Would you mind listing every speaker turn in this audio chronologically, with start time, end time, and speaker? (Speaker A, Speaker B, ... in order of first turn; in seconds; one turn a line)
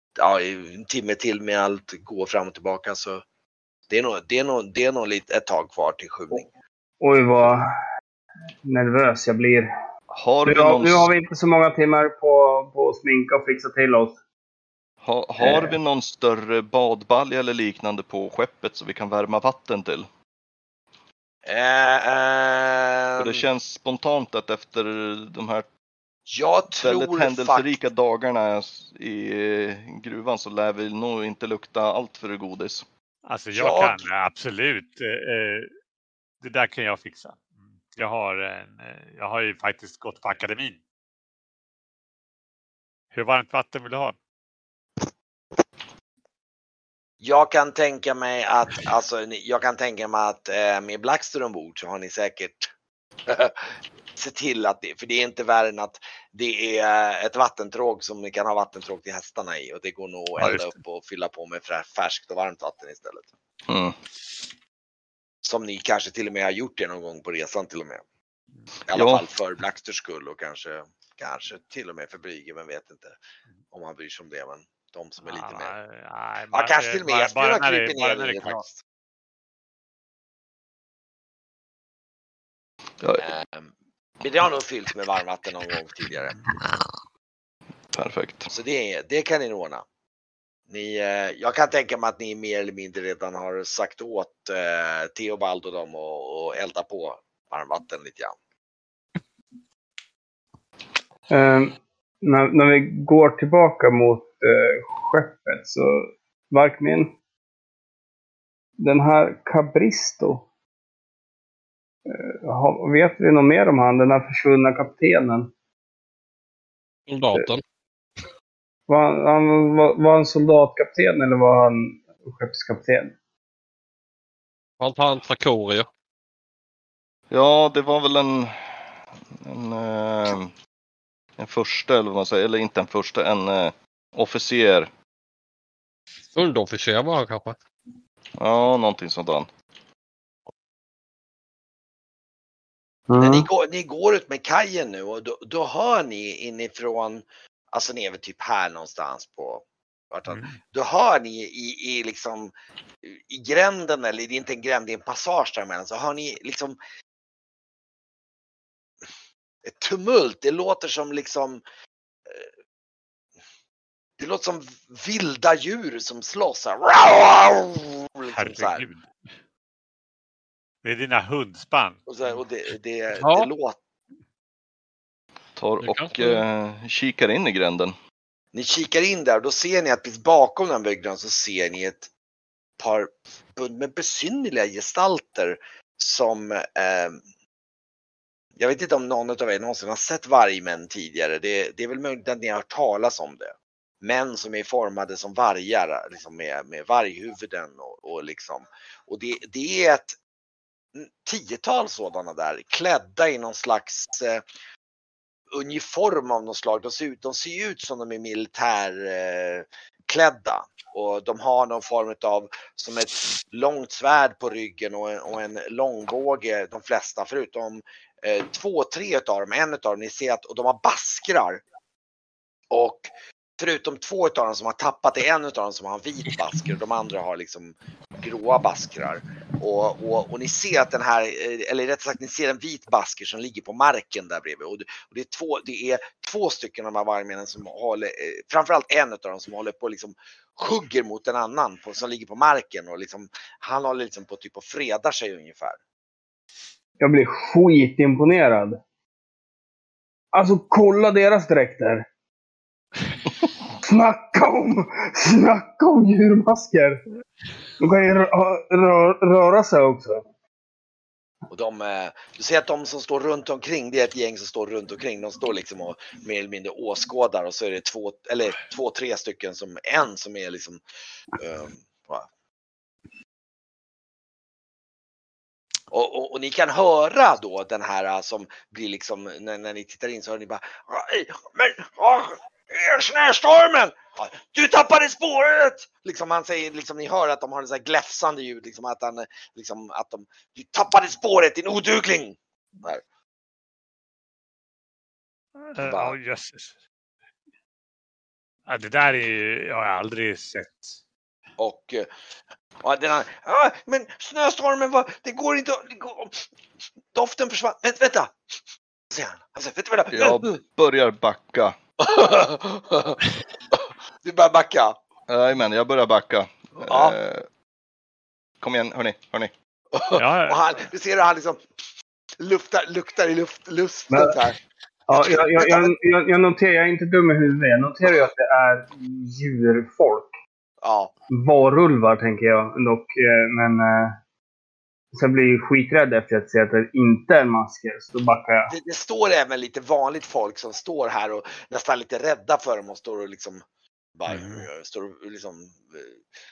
Speaker A: 0.2-3.2
Speaker A: 3.9-6.5
Speaker B: 7.0-7.7
Speaker B: 8.7-9.7
Speaker C: 10.1-11.1
Speaker B: 10.4-14.2
Speaker C: 15.0-20.1
Speaker B: 15.4-15.8
Speaker A: 21.5-23.4
Speaker C: 23.2-25.7
Speaker A: 26.3-27.8
Speaker C: 26.8-32.9
Speaker D: 33.3-35.7
Speaker A: 33.6-34.0
Speaker D: 36.4-40.8
Speaker D: 43.1-44.2
Speaker A: 47.2-52.7
Speaker A: 53.3-63.3
Speaker D: 60.4-60.7
Speaker C: 63.7-64.0
Speaker A: 65.4-68.0
Speaker A: 68.9-73.2
Speaker C: 68.9-69.2
Speaker A: 73.7-75.7
Speaker D: 75.3-78.6
Speaker A: 76.5-78.8
Speaker A: 83.2-86.4
Speaker C: 87.9-88.5
Speaker A: 88.5-89.8
Speaker A: 90.7-98.4
Speaker B: 101.3-107.2
Speaker B: 108.8-110.5
Speaker B: 112.1-115.5
Speaker E: 117.1-117.6
Speaker B: 118.9-123.1
Speaker E: 124.8-125.9
Speaker C: 127.3-130.5
Speaker C: 131.4-134.9
Speaker E: 136.4-137.6
Speaker C: 138.4-139.5
Speaker B: 143.1-143.5
Speaker A: 143.2-152.5
Speaker D: 150.3-150.6
Speaker A: 153.0-156.8
Speaker A: 159.7-161.6
Speaker A: 164.2-168.9
Speaker D: 168.3-169.1
Speaker D: 170.8-172.1
Speaker A: 172.1-173.8
Speaker E: 173.2-173.5
Speaker C: 175.6-178.0
Speaker E: 175.8-176.4
Speaker A: 178.5-182.1
Speaker A: 182.8-187.2
Speaker A: 188.6-200.2
Speaker A: 200.9-204.4
Speaker A: 205.5-221.6
Speaker A: 222.7-223.1
Speaker A: 223.6-245.8
Speaker B: 247.0-248.8
Speaker B: 250.3-252.1
Speaker B: 253.8-257.0
Speaker B: 257.8-260.2
Speaker A: 261.5-270.8
Speaker A: 271.4-272.3
Speaker A: 275.9-293.0
Speaker D: 295.7-296.7
Speaker A: 295.8-296.2
Speaker D: 298.7-301.0
Speaker A: 301.6-302.1
Speaker A: 302.8-306.5
Speaker A: 307.1-308.3
Speaker A: 309.1-310.6
Speaker C: 310.1-311.8
Speaker A: 312.0-315.0
Speaker C: 315.3-317.5
Speaker A: 316.8-317.2
Speaker C: 318.6-319.5
Speaker A: 319.9-321.6
Speaker D: 320.1-320.8
Speaker A: 322.4-324.6
Speaker B: 324.1-324.4
Speaker B: 325.1-330.3
Speaker A: 325.1-325.9
Speaker A: 330.8-331.1
Speaker B: 331.3-334.2
Speaker B: 335.1-338.7
Speaker A: 338.7-343.6
Speaker A: 344.2-346.2
Speaker D: 344.3-344.6